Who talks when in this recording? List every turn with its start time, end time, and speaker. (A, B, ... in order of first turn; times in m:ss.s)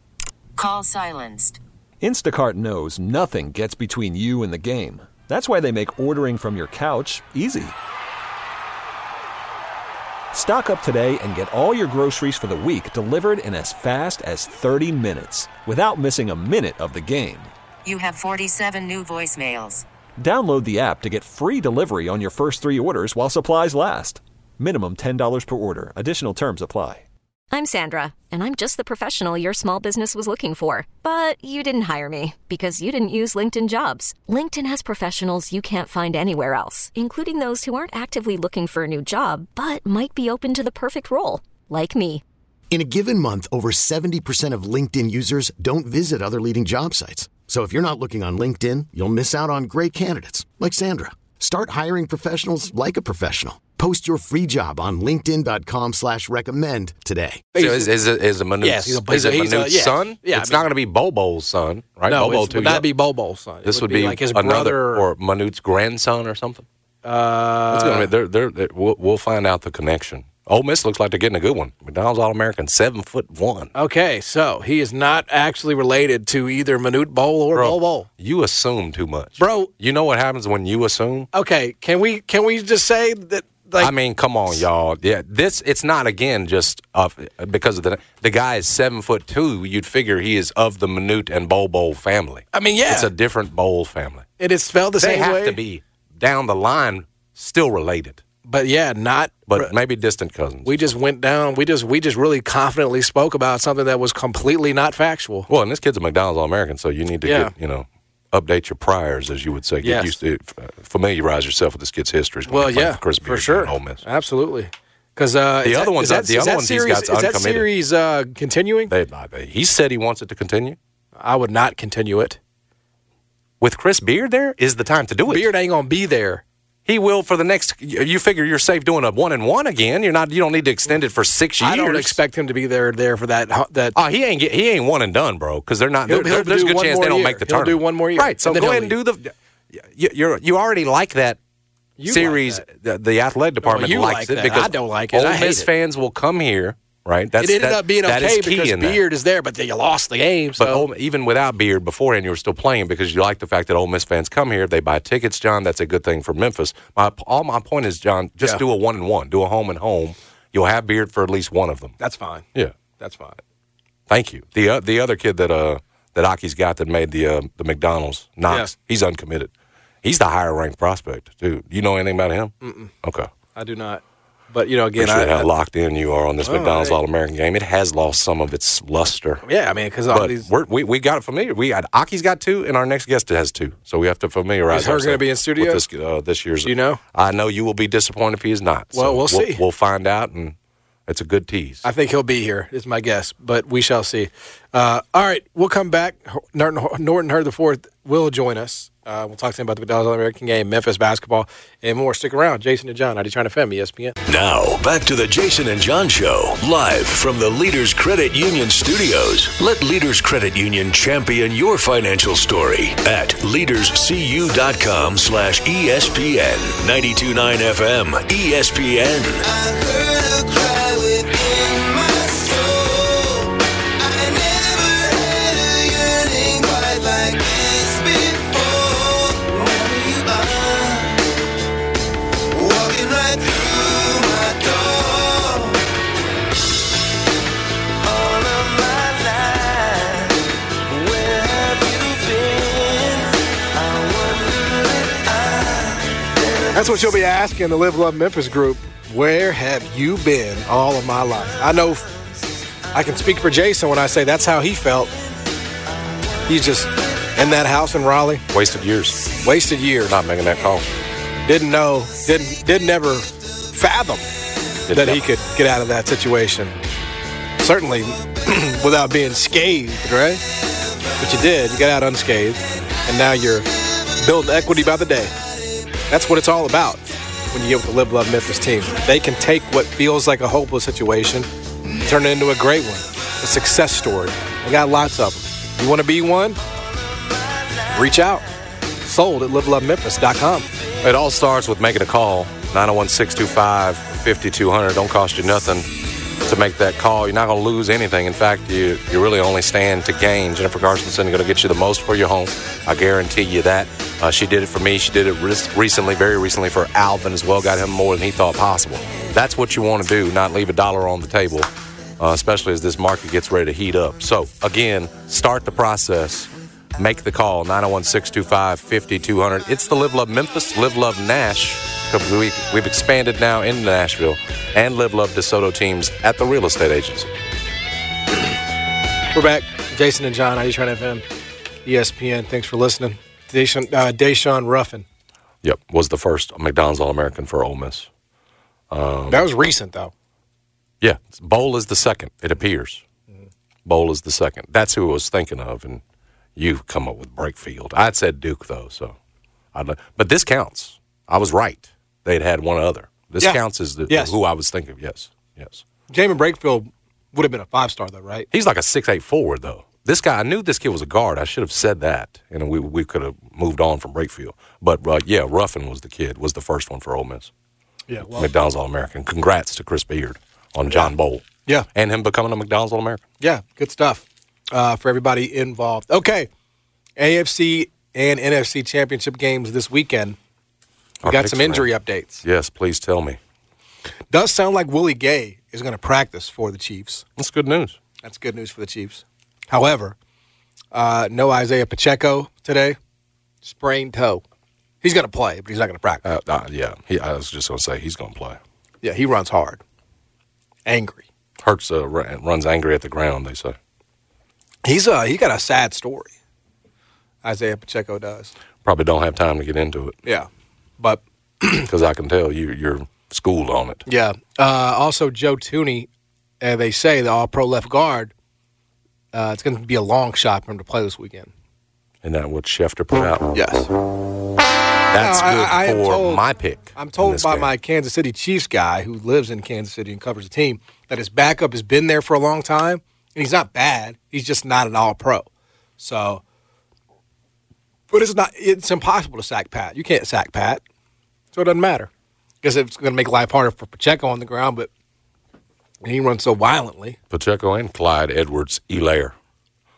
0:00.6-0:01.6 A
0:02.0-0:07.8 B
0:10.3-0:17.5 B
0:17.8-0:19.8 A
0:20.2-0:27.0 B
0:27.5-0:42.2 C
0:42.7-0:57.4 D
0:57.5-0:57.9 E
0:57.6-1:02.9 F
0:58.6-1:00.7 E
1:02.1-1:05.0 E
1:03.6-1:06.6 F
1:07.0-1:08.1 E
1:07.7-1:13.7 F
1:13.7-1:18.1 E
1:17.5-1:21.3 F
1:19.4-1:19.7 E
1:21.3-1:24.0 E
1:23.8-1:34.3 F
1:32.5-1:33.1 E
1:34.4-1:35.6 E
1:35.0-1:38.2 F
1:38.4-1:39.7 E
1:39.5-1:40.7 F
1:40.6-1:45.5 E
1:45.5-1:54.0 F
1:47.2-1:47.5 E
1:49.8-1:50.2 E
1:52.5-1:58.9 E
1:55.6-1:57.7 F
1:58.9-2:00.8 F
2:01.2-2:02.4 E
2:03.6-2:05.5 F
2:05.3-2:06.4 E
2:06.9-2:12.2 F
2:11.6-2:14.0 E
2:14.0-2:19.3 F
2:16.1-2:19.0 E
2:19.8-2:21.4 F
2:22.0-2:22.6 E
2:22.1-2:29.0 F
2:23.6-2:25.7 E
2:27.4-2:30.9 E
2:30.6-2:42.0 F
2:42.0-2:42.5 E
2:43.0-2:43.4 E
2:44.1-2:49.5 F
2:48.5-2:48.7 E
2:50.0-2:53.3 F
2:52.6-2:52.9 E
2:53.6-2:55.5 E
2:55.0-2:59.4 F
2:56.4-2:57.0 E
2:59.4-3:00.5 E
3:00.1-3:10.6 F
3:04.7-3:05.8 E
3:06.6-3:07.0 E
3:08.9-3:09.6 E
3:11.1-3:11.8 F
3:11.8-3:24.2 E
3:24.3-3:39.4 G
4:06.7-4:12.1 E
4:12.9-4:15.1 E
4:16.5-4:18.4 E
4:18.5-4:19.3 F
4:19.4-4:20.2 E
4:20.1-4:20.9 F
4:21.5-4:24.2 E
4:24.9-4:25.2 F
4:24.9-4:26.8 E
4:27.6-4:30.4 E
4:31.2-4:35.3 E
4:36.1-4:41.5 E
4:42.0-4:46.6 E
4:47.9-4:48.4 E
4:49.0-4:50.7 E
4:51.0-4:55.9 F
4:56.4-5:27.3 F
5:29.3-5:31.2 E
5:31.8-5:35.0 E
5:35.6-5:38.1 F
5:38.9-5:39.5 F
5:39.3-5:40.1 E
5:41.0-5:43.0 F
5:43.9-5:46.0 F
5:46.6-5:49.2 F
5:49.7-5:55.8 F
5:53.4-5:54.4 E
5:56.1-5:58.5 E
5:58.5-6:07.5 F
6:08.1-6:08.5 E
6:08.4-6:13.2 F
6:13.4-6:16.5 E
6:17.2-6:20.4 E
6:21.2-6:21.9 F
6:21.2-6:22.4 E
6:22.4-6:23.4 F
6:24.3-6:27.2 E
6:27.4-6:28.0 F
6:28.2-6:30.2 E
6:30.9-6:33.0 E
6:33.6-6:34.4 E
6:35.0-6:36.2 E
6:36.2-6:38.6 F
6:39.0-6:39.8 E
6:40.9-6:41.2 E
6:41.6-6:43.8 F
6:44.8-6:46.3 E
6:47.4-6:48.5 E
6:48.8-6:50.2 F
6:51.0-6:51.9 E
6:51.8-6:54.0 F
6:54.1-6:56.1 E
6:56.6-6:58.3 E
6:59.3-7:01.5 E
7:02.2-7:03.5 F
7:03.2-7:03.9 E
7:05.1-7:07.7 F
7:05.2-7:06.4 E
7:07.0-7:15.5 E
7:16.0-7:16.4 E
7:18.1-7:20.8 E
7:21.5-7:22.1 E
7:22.6-7:24.9 E
7:26.0-7:27.2 E
7:27.3-7:29.3 F